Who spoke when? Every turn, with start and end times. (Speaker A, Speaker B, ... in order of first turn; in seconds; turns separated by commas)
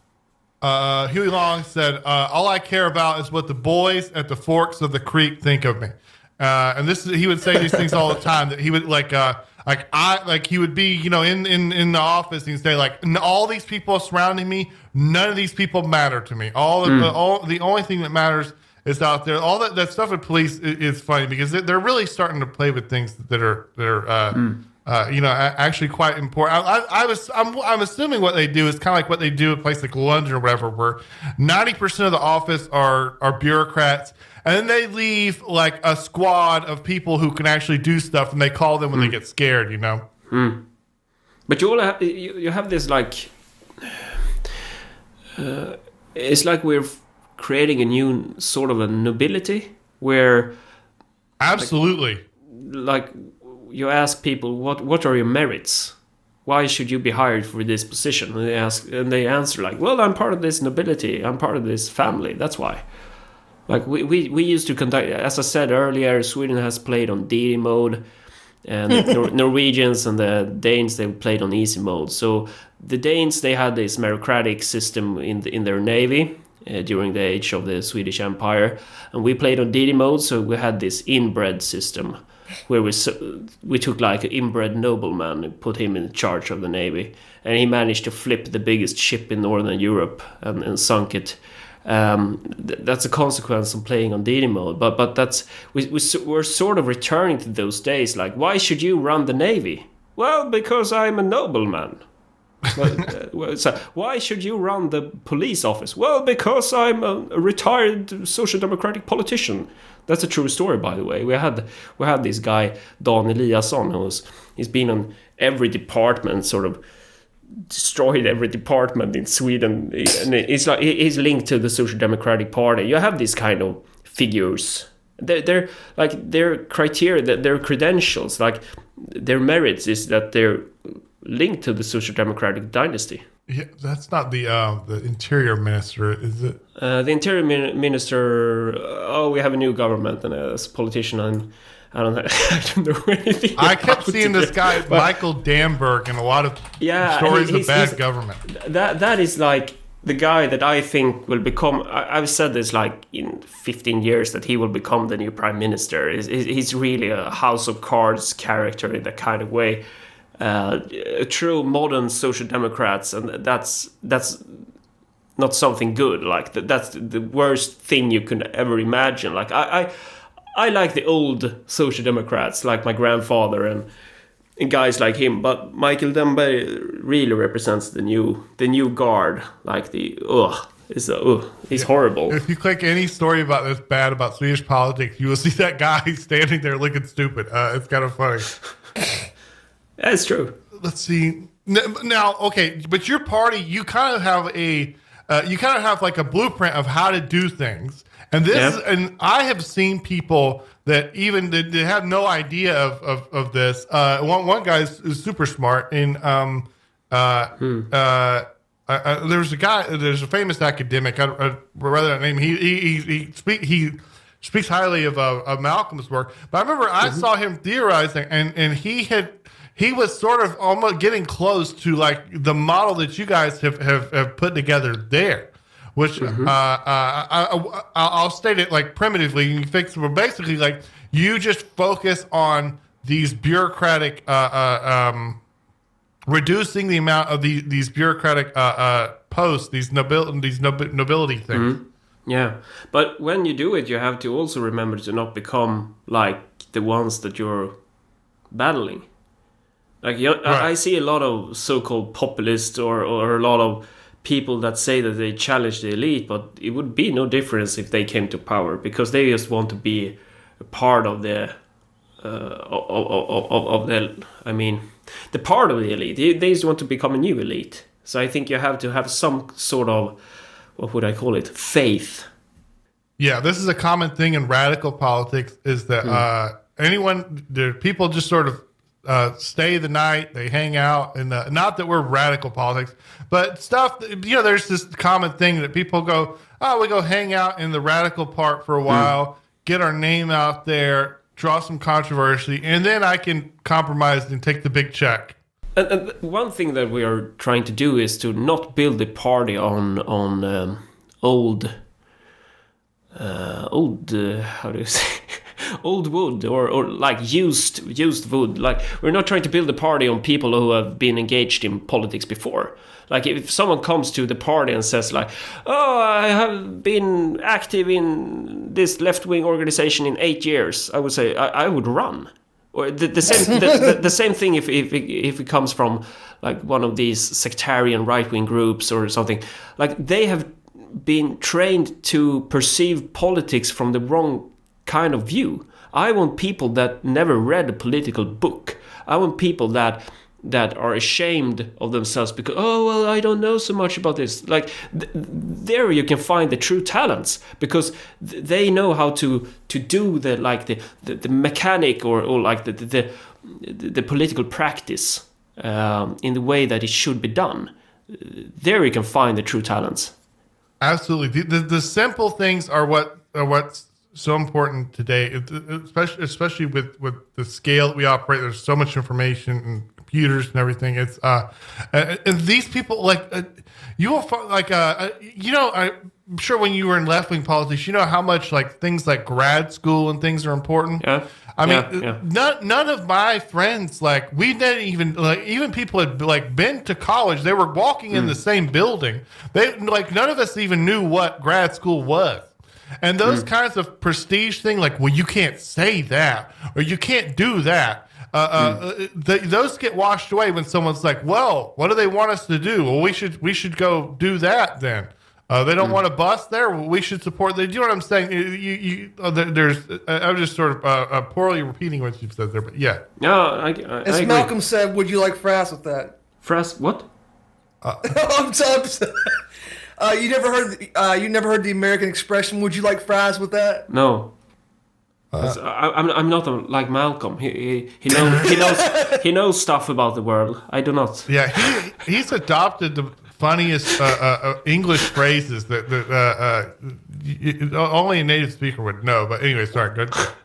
Speaker A: 0.6-40.0, Speaker B: 16.9-17.1, Speaker B: 40.3-40.6, Speaker B: 41.5-44.1, Speaker B: 45.4-50.5, Speaker A: 51.4-52.2, Speaker B: 52.5-62.8, Speaker B: 63.7-68.0, Speaker B: 68.7-102.0, Speaker B: 102.7-116.8, Speaker B: 117.7-133.2, Speaker A: 133.5-136.6, Speaker B: 136.8-145.1, Speaker A: 143.6-148.4, Speaker B: 146.8-159.8, Speaker B: 160.4-164.7, Speaker B: 165.4-169.9, Speaker B: 170.5-173.9, Speaker B: 174.6-182.4, Speaker A: 181.7-188.5, Speaker B: 190.0-190.6, Speaker A: 190.8-235.4, Speaker B: 198.5-198.8, Speaker B: 207.6-207.9, Speaker B: 226.2-226.5, Speaker A: 236.3-241.7, Speaker B: 241.5-247.8, Speaker B: 248.5-249.1, Speaker B: 250.0-261.6, Speaker B: 262.2-270.2, Speaker B: 270.8-272.3, Speaker A: 273.2-295.4, Speaker B: 295.8-301.8, Speaker B: 303.1-360.1, Speaker A: 360.8-381.0, Speaker B: 381.0-382.2, Speaker A: 381.6-392.5, Speaker A: 393.0-413.0, Speaker B: 413.2-414.5, Speaker C: 414.1-416.1, Speaker B: 416.4-417.1, Speaker A: 417.8-418.1, Speaker C: 418.0-419.4, Speaker C: 420.0-423.9, Speaker B: 423.9-424.3, Speaker A: 425.3-425.6, Speaker B: 425.4-431.7, Speaker C: 428.3-429.2, Speaker A: 431.3-440.3